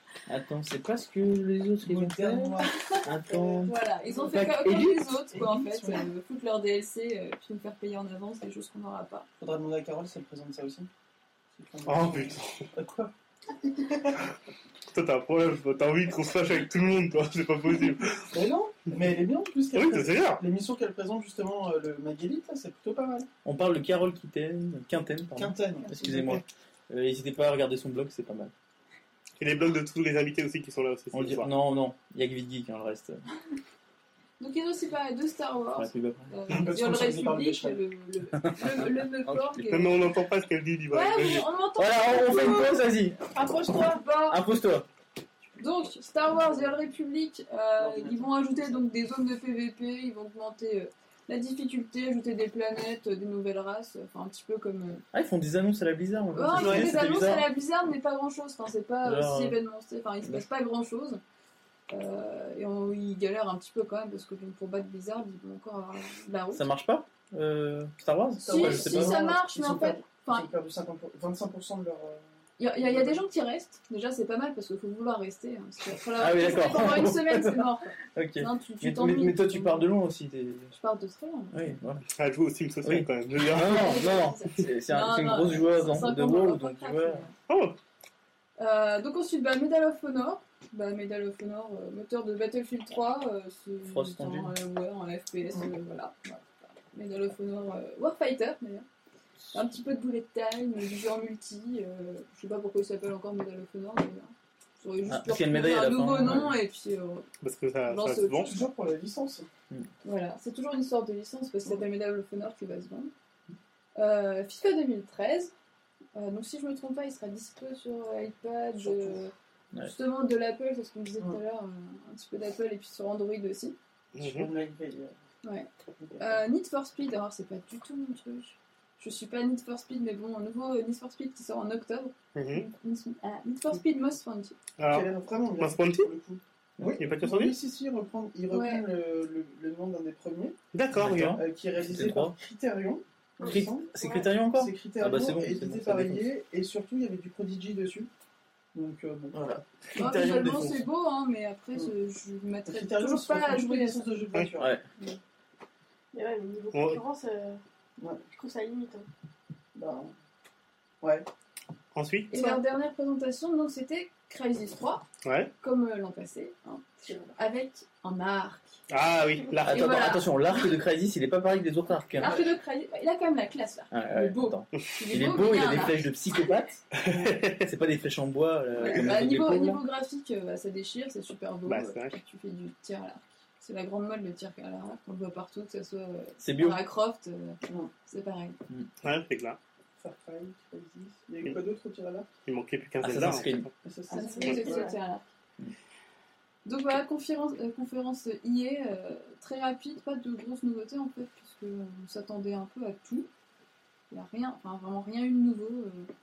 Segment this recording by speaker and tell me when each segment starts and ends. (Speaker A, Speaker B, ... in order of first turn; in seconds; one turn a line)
Speaker A: 0.3-5.2
Speaker B: 1.8-3.7
Speaker C: 3.6-9.3
Speaker B: 5.3-6.1
Speaker B: 9.4-10.9
Speaker B: 11.6-13.1
Speaker D: 11.8-12.7
Speaker B: 13.7-14.2
Speaker D: 14.9-18.2
Speaker B: 18.3-23.3
Speaker D: 19.7-20.4
Speaker A: 23.4-28.5
Speaker B: 25.4-26.4
Speaker D: 29.4-31.5
Speaker A: 31.1-33.2
Speaker C: 34.4-40.0
Speaker A: 35.8-36.3
Speaker B: 36.5-37.8
Speaker A: 38.4-39.7
Speaker D: 39.7-41.5
Speaker C: 40.9-42.8
Speaker A: 41.8-43.2
Speaker E: 43.3-44.0
Speaker C: 43.8-44.4
Speaker A: 44.3-44.9
Speaker C: 45.6-55.0
Speaker B: 47.8-48.8
Speaker A: 55.1-57.5
Speaker C: 56.3-61.2
Speaker B: 56.5-57.2
Speaker A: 59.0-59.6
Speaker C: 61.9-66.7
Speaker A: 66.5-69.2
Speaker C: 68.4-70.5
Speaker B: 68.4-72.2
Speaker C: 72.6-79.9
Speaker B: 72.8-73.2
Speaker A: 76.2-80.7
Speaker C: 80.7-81.7
Speaker A: 81.5-82.0
Speaker D: 82.2-84.0
Speaker A: 82.8-87.2
Speaker C: 83.6-87.3
Speaker D: 87.5-87.8
Speaker C: 88.6-98.9
Speaker A: 93.8-94.6
Speaker C: 99.5-107.3
Speaker A: 105.1-106.6
Speaker D: 107.4-108.5
Speaker C: 107.9-108.6
Speaker B: 108.5-109.5
Speaker C: 110.0-113.1
Speaker C: 114.0-115.5
Speaker C: 116.2-123.8
Speaker B: 118.8-119.2
Speaker D: 124.2-124.5
Speaker B: 124.2-125.1
Speaker C: 125.4-134.6
Speaker B: 126.0-126.4
Speaker D: 132.3-132.7
Speaker D: 134.8-135.1
Speaker B: 134.9-140.6
Speaker D: 135.6-136.1
Speaker D: 137.0-137.6
Speaker C: 138.5-138.8
Speaker D: 140.7-141.4
Speaker A: 140.9-142.3
Speaker B: 141.3-143.9
Speaker E: 143.4-144.3
Speaker A: 143.4-146.3
Speaker B: 144.4-148.1
Speaker B: 148.7-149.4
Speaker A: 149.3-150.9
Speaker C: 149.9-154.1
Speaker B: 152.7-154.8
Speaker A: 154.6-154.8
Speaker E: 156.1-157.6
Speaker D: 156.7-157.0
Speaker E: 158.3-159.1
Speaker B: 159.8-160.1
Speaker D: 161.9-162.3
Speaker C: 162.3-165.1
Speaker D: 165.2-165.5
Speaker C: 165.6-168.7
Speaker D: 168.9-170.1
Speaker C: 169.7-170.7
Speaker A: 169.7-172.4
Speaker C: 172.2-176.1
Speaker B: 172.2-172.5
Speaker A: 173.9-176.8
Speaker D: 176.9-177.7
Speaker A: 177.6-179.8
Speaker C: 178.8-188.6
Speaker D: 181.7-182.2
Speaker A: 186.4-186.8
Speaker D: 189.0-189.6
Speaker B: 190.0-192.3
Speaker D: 192.5-193.7
Speaker A: 193.0-193.7
Speaker B: 193.8-194.9
Speaker E: 194.1-194.9
Speaker C: 194.1-195.2
Speaker C: 196.7-203.3
Speaker C: 204.1-206.1